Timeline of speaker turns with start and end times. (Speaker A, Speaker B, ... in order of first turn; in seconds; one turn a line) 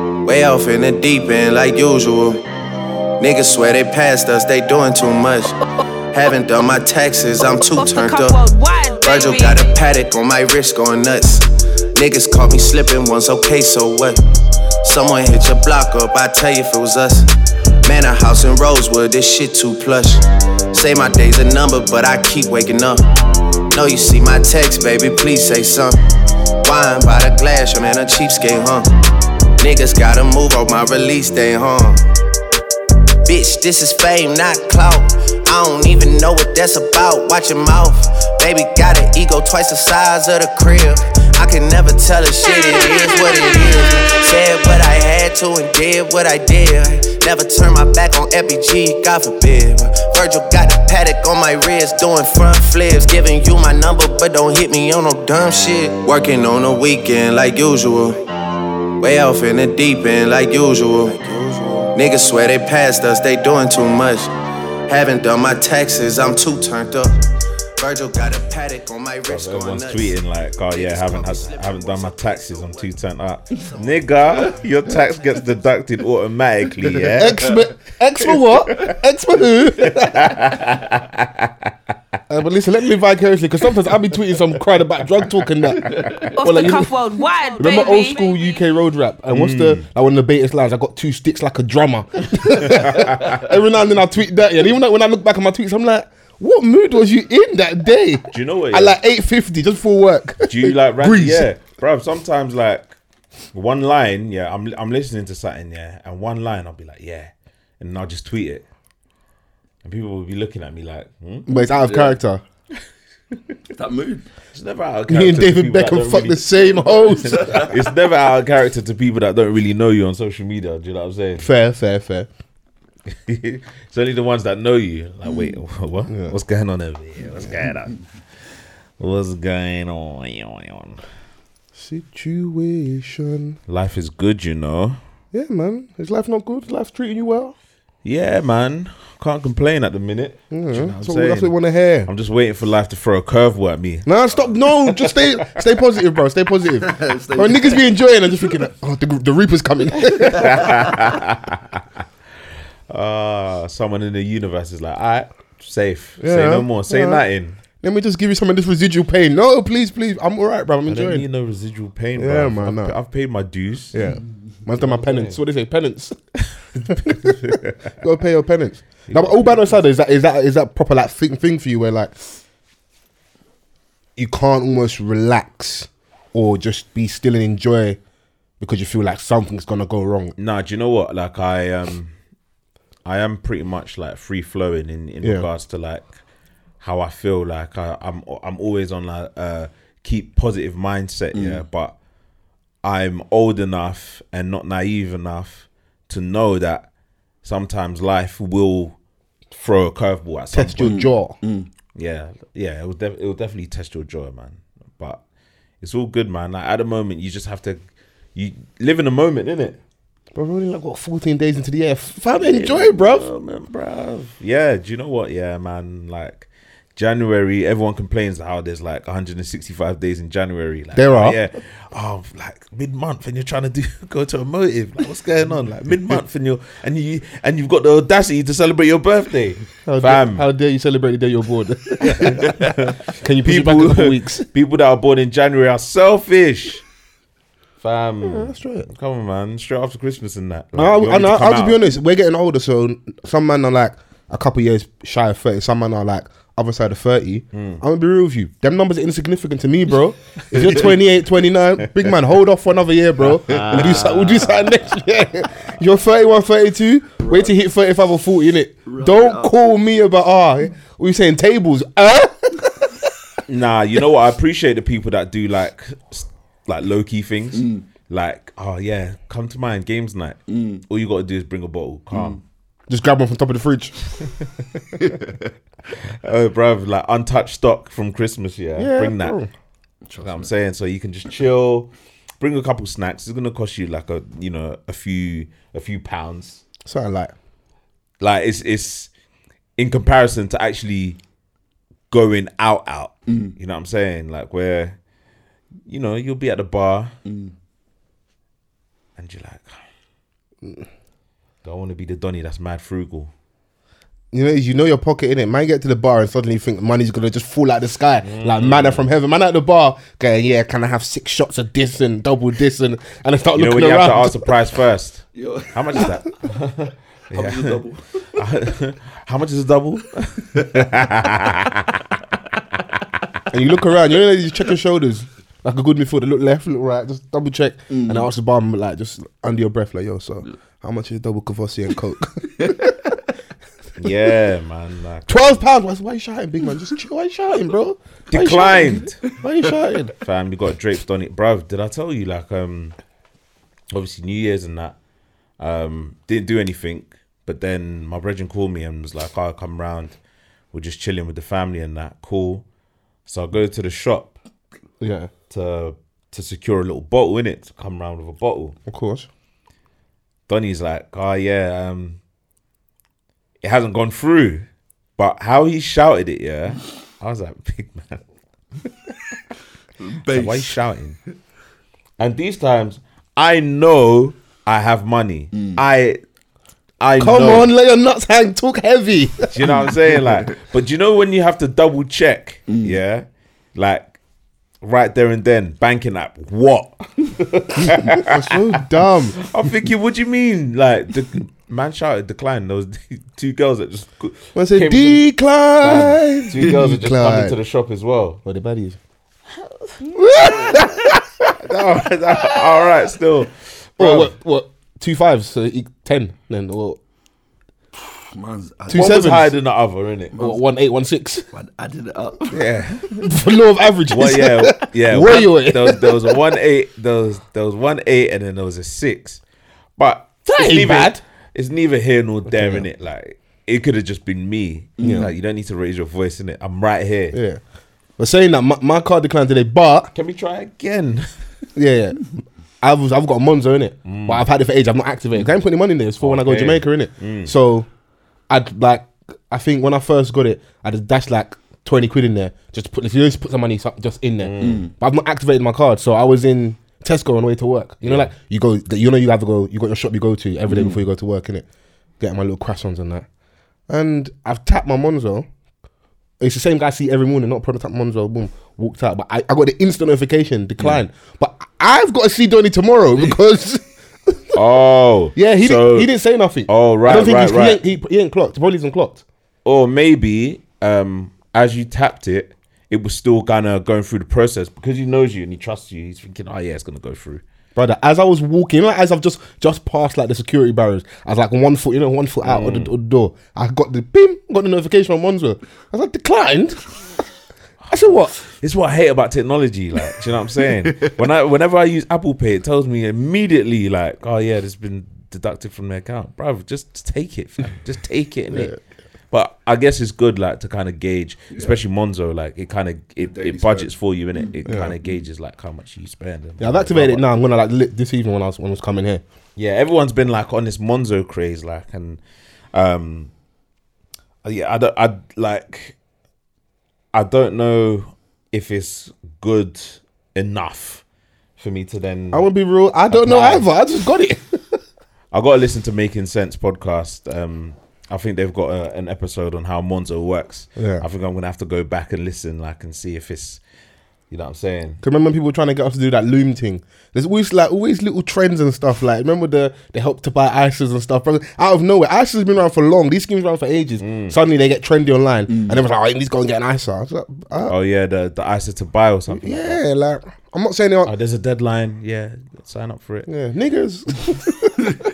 Speaker A: 0.2-2.5
Speaker A: 3.2-5.6
Speaker A: 6.1-8.5
Speaker B: 7.7-9.8
Speaker A: 9.0-14.2
Speaker A: 14.8-17.3
Speaker A: 17.8-23.2
Speaker A: 23.7-26.0
Speaker A: 26.6-28.9
Speaker A: 29.6-32.1
Speaker A: 33.3-58.2
Speaker A: 59.0-64.3
Speaker A: 64.9-67.2
Speaker A: 67.8-73.0
Speaker C: 69.3-77.5
Speaker A: 73.5-75.1
Speaker D: 77.1-80.6
Speaker C: 78.5-79.0
Speaker C: 79.8-81.7
Speaker D: 82.3-101.5
Speaker C: 85.2-86.1
Speaker E: 86.0-86.3
Speaker B: 86.3-88.6
Speaker C: 89.3-89.8
Speaker C: 92.7-93.4
Speaker C: 98.3-99.0
Speaker C: 100.5-103.0
Speaker C: 103.5-108.6
Speaker C: 109.8-111.5
Speaker D: 111.5-112.4
Speaker E: 111.5-112.2
Speaker E: 113.7-114.3
Speaker C: 114.5-121.5
Speaker D: 115.1-117.7
Speaker E: 117.2-117.7
Speaker D: 121.4-122.3
Speaker C: 123.1-128.0
Speaker D: 126.1-126.4
Speaker C: 129.0-131.0
Speaker D: 131.8-133.6
Speaker C: 133.7-135.0
Speaker D: 135.3-137.6
Speaker C: 138.0-141.5
Speaker D: 140.5-142.1
Speaker C: 142.1-145.7
Speaker D: 144.1-150.7
Speaker E: 146.8-147.9
Speaker C: 150.3-151.8
Speaker C: 152.9-157.6
Speaker D: 156.2-157.2
Speaker D: 157.8-161.3
Speaker C: 160.9-164.0
Speaker D: 162.2-163.0
Speaker D: 163.9-166.2
Speaker C: 164.7-165.4
Speaker D: 166.8-172.1
Speaker C: 166.8-167.8
Speaker C: 169.1-169.8
Speaker D: 174.2-178.0
Speaker D: 178.6-180.3
Speaker C: 180.4-182.1
Speaker C: 183.1-186.2
Speaker D: 185.2-185.5
Speaker C: 186.8-191.9
Speaker E: 191.3-191.6
Speaker C: 192.8-196.9
Speaker C: 197.4-199.0
Speaker C: 199.5-200.9
Speaker D: 200.5-201.4
Speaker E: 200.8-201.7
Speaker C: 201.9-205.2
Speaker C: 205.8-207.8
Speaker C: 208.3-209.8
Speaker D: 210.3-213.3
Speaker C: 212.4-230.5
Speaker D: 220.9-221.4
Speaker D: 229.9-234.5
Speaker C: 232.1-236.8
Speaker C: 237.8-241.8
Speaker D: 238.2-238.9
Speaker D: 240.7-263.1
Speaker C: 247.5-247.8
Speaker C: 250.5-250.9
Speaker C: 253.5-254.9
Speaker E: 253.5-254.0
Speaker E: 257.2-257.5
Speaker E: 258.9-259.5
Speaker C: 263.5-272.4
Speaker E: 267.5-267.9
Speaker E: 270.5-270.9
Speaker E: 272.1-272.4
Speaker D: 272.9-274.1
Speaker E: 275.0-275.5
Speaker C: 276.1-279.4
Speaker D: 278.8-279.5
Speaker E: 280.1-280.5
Speaker C: 280.2-286.6
Speaker D: 286.9-287.3
Speaker C: 288.2-289.1
Speaker C: 289.8-291.2
Speaker C: 292.1-295.0
Speaker E: 293.3-293.6
Speaker C: 295.9-297.1
Speaker E: 297.2-297.5
Speaker C: 299.2-299.8
Speaker C: 301.6-303.3
Speaker D: 304.3-314.5
Speaker C: 308.2-309.1
Speaker C: 313.5-322.1
Speaker E: 315.4-316.2
Speaker E: 317.3-318.4
Speaker D: 323.5-333.2
Speaker E: 327.9-328.3
Speaker E: 332.6-332.9
Speaker C: 334.0-335.6
Speaker D: 335.3-340.1
Speaker C: 338.3-339.2
Speaker C: 340.2-343.0
Speaker C: 343.9-345.0
Speaker C: 345.6-350.2
Speaker C: 350.7-352.6
Speaker C: 353.3-354.3
Speaker D: 355.0-355.3
Speaker C: 355.5-358.8
Speaker D: 358.9-359.3
Speaker C: 360.5-362.2
Speaker C: 363.6-364.7
Speaker C: 365.2-368.2
Speaker E: 370.0-370.8
Speaker C: 370.3-371.2
Speaker C: 372.2-376.2
Speaker E: 375.5-375.8
Speaker C: 377.0-377.7
Speaker D: 377.2-379.6
Speaker C: 379.5-384.1
Speaker E: 379.6-380.6
Speaker E: 382.7-383.0
Speaker C: 384.8-388.6
Speaker D: 387.9-389.4
Speaker C: 389.4-395.2
Speaker D: 394.6-397.6
Speaker C: 395.8-398.4
Speaker D: 398.4-399.0
Speaker D: 400.1-401.5
Speaker C: 400.4-400.9
Speaker C: 401.6-404.3
Speaker D: 402.3-402.6
Speaker D: 404.0-407.0
Speaker E: 408.3-409.5
Speaker D: 408.9-409.5
Speaker C: 408.9-410.4
Speaker D: 410.4-411.5
Speaker E: 411.5-412.8
Speaker C: 412.5-413.3
Speaker D: 413.2-416.2
Speaker C: 414.1-419.4
Speaker C: 420.0-427.4
Speaker D: 420.5-421.2
Speaker D: 422.5-422.9
Speaker E: 425.0-425.3
Speaker D: 425.0-425.3
Speaker D: 427.3-427.6
Speaker D: 428.2-430.1
Speaker C: 430.1-431.3
Speaker D: 431.8-432.3
Speaker D: 432.8-437.9
Speaker C: 434.1-434.4
Speaker C: 436.2-437.5
Speaker D: 438.5-451.7
Speaker C: 444.4-444.9
Speaker E: 444.6-444.9
Speaker C: 448.0-448.3
Speaker E: 450.7-451.1
Speaker D: 452.2-453.3
Speaker D: 453.9-455.5
Speaker D: 456.4-464.6
Speaker C: 464.5-466.1
Speaker D: 465.4-469.2
Speaker C: 466.7-467.8
Speaker C: 469.6-477.4
Speaker D: 477.8-486.8
Speaker C: 482.4-482.9
Speaker C: 487.8-498.7
Speaker D: 487.9-488.4
Speaker D: 498.5-498.8
Speaker C: 499.3-507.2
Speaker E: 501.5-501.8
Speaker E: 503.2-505.2
Speaker D: 504.6-504.9
Speaker D: 506.6-509.2
Speaker C: 509.6-512.2
Speaker C: 512.7-513.3
Speaker C: 514.4-516.0
Speaker C: 517.1-521.0
Speaker C: 521.6-522.5
Speaker D: 522.3-524.8
Speaker C: 523.1-523.7
Speaker C: 525.3-533.6
Speaker D: 530.8-531.0
Speaker C: 534.3-535.0
Speaker D: 535.0-547.7
Speaker C: 544.0-544.4
Speaker E: 545.5-545.8
Speaker C: 547.7-549.8
Speaker D: 549.3-551.1
Speaker C: 551.0-553.3
Speaker D: 553.3-554.9